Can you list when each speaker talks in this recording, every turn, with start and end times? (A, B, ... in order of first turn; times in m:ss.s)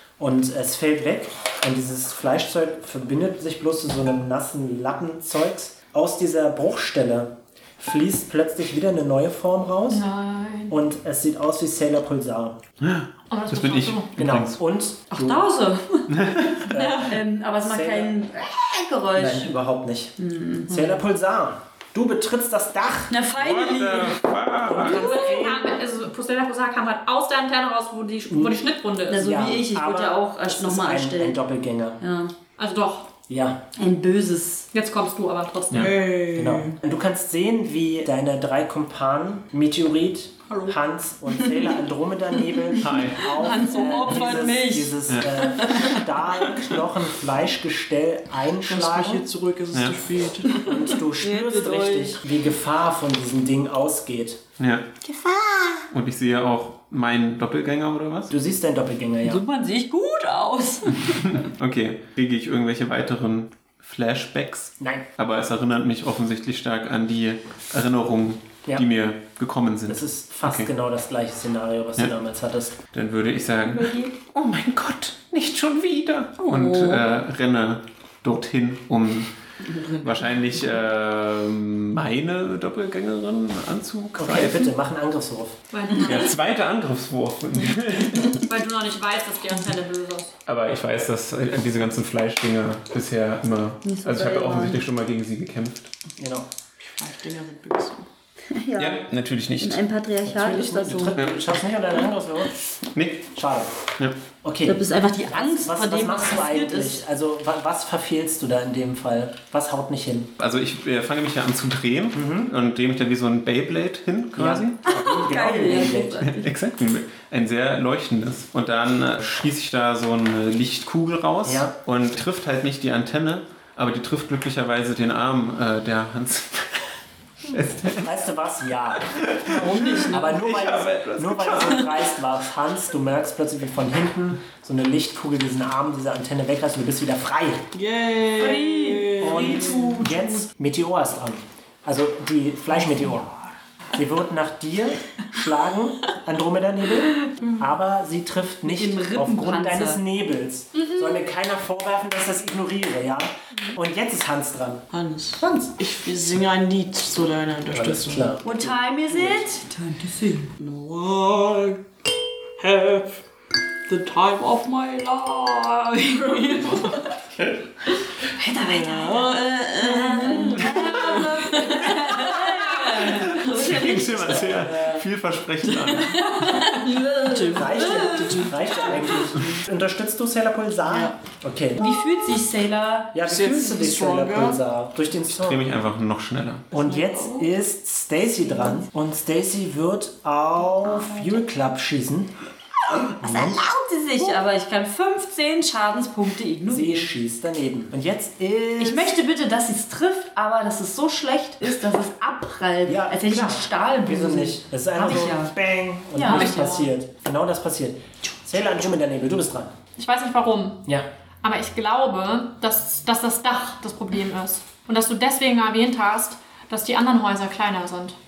0:00.2-0:10.0 A
0:09.9-0:10.8 B
0:10.7-0:12.6 A
0:12.8-0:14.6 C
0:13.3-0:14.1 B
0:14.2-0:15.5 A
0:15.1-0:19.5 D
0:16.1-0:16.6 C
0:16.7-0:18.1 A
0:19.2-0:20.2 A
0:20.2-0:21.0 D
0:20.7-0:23.1 A
0:23.1-0:24.3 D
0:23.4-0:25.1 C
0:24.6-0:25.8 A
0:24.8-0:29.2 B
0:28.3-0:32.0 A
0:29.1-0:31.4 D
0:32.0-0:32.3 D
0:32.6-0:33.1 B
0:33.3-0:33.6 A
0:33.8-0:34.7 D
0:34.7-0:35.9 B
0:35.7-0:36.8 E
0:36.3-0:49.3 A
0:40.5-0:40.8 E
0:42.8-0:43.3 C
0:43.2-0:46.0 D
0:48.7-0:50.9 E
0:49.7-0:50.0 C
0:50.6-0:52.2 D
0:50.6-0:54.4 A
0:54.6-0:54.9 C
0:55.0-0:55.9 D
0:55.9-0:58.3 C
0:58.3-0:59.4 A
0:59.2-1:01.4 D
1:01.0-1:10.7 C
1:04.8-1:05.1 A
1:09.9-1:12.8 A
1:12.9-1:19.3 C
1:13.7-1:14.1 D
1:16.4-1:17.0 D
1:19.6-1:20.6 E
1:20.0-1:24.7 C
1:24.2-1:25.6 A
1:25.7-1:26.3 B
1:26.0-1:28.4 C
1:28.3-1:30.3 B
1:30.5-1:35.9 C
1:33.8-1:34.8 D
1:36.2-1:36.5 A
1:36.8-1:38.1 E
1:38.5-1:41.2 D
1:38.8-1:39.8 C
1:40.2-1:42.5 A
1:41.2-1:41.4 C
1:42.9-1:43.3 C
1:43.3-1:43.7 A
1:44.4-1:50.3 A
1:44.6-1:47.0 D
1:50.4-1:54.8 C
1:52.1-1:52.5 A
1:54.4-1:56.3 A
1:54.9-1:56.5 D
1:56.2-2:07.0 C
2:01.4-2:01.7 A
2:07.5-2:08.1 C
2:08.0-2:17.7 A
2:09.0-2:12.0 C
2:09.6-2:10.1 D
2:09.8-2:10.4 E
2:17.7-2:20.2 E
2:18.4-2:20.1 D
2:19.2-2:23.3 A
2:23.9-2:34.9 A
2:28.6-2:30.0 D
2:30.8-2:31.2 B
2:34.9-2:38.3 E
2:35.4-2:35.8 A
2:37.7-2:39.5 A
2:38.4-2:40.5 D
2:40.6-2:41.8 E
2:42.6-2:43.2 E
2:43.9-2:47.5 E
2:48.4-2:54.5 D
2:48.6-2:53.5 E
2:53.1-2:56.5 C
2:53.9-2:55.1 A
2:55.7-2:59.6 E
2:56.1-2:58.7 D
2:57.5-3:01.9 A
3:00.9-3:01.2 E
3:01.8-3:03.2 D
3:03.1-3:05.8 A
3:03.2-3:04.6 E
3:05.3-3:06.7 C
3:06.7-3:12.4 A
3:06.8-3:07.5 E
3:08.5-3:08.8 D
3:11.0-3:11.3 D
3:12.9-3:17.1 D
3:13.2-3:13.7 A
3:16.7-3:19.2 A
3:18.8-3:25.5 D
3:22.8-3:29.8 A
3:26.1-3:26.5 D
3:26.3-3:26.9 B
3:30.0-3:30.8 B
3:31.4-3:38.2 B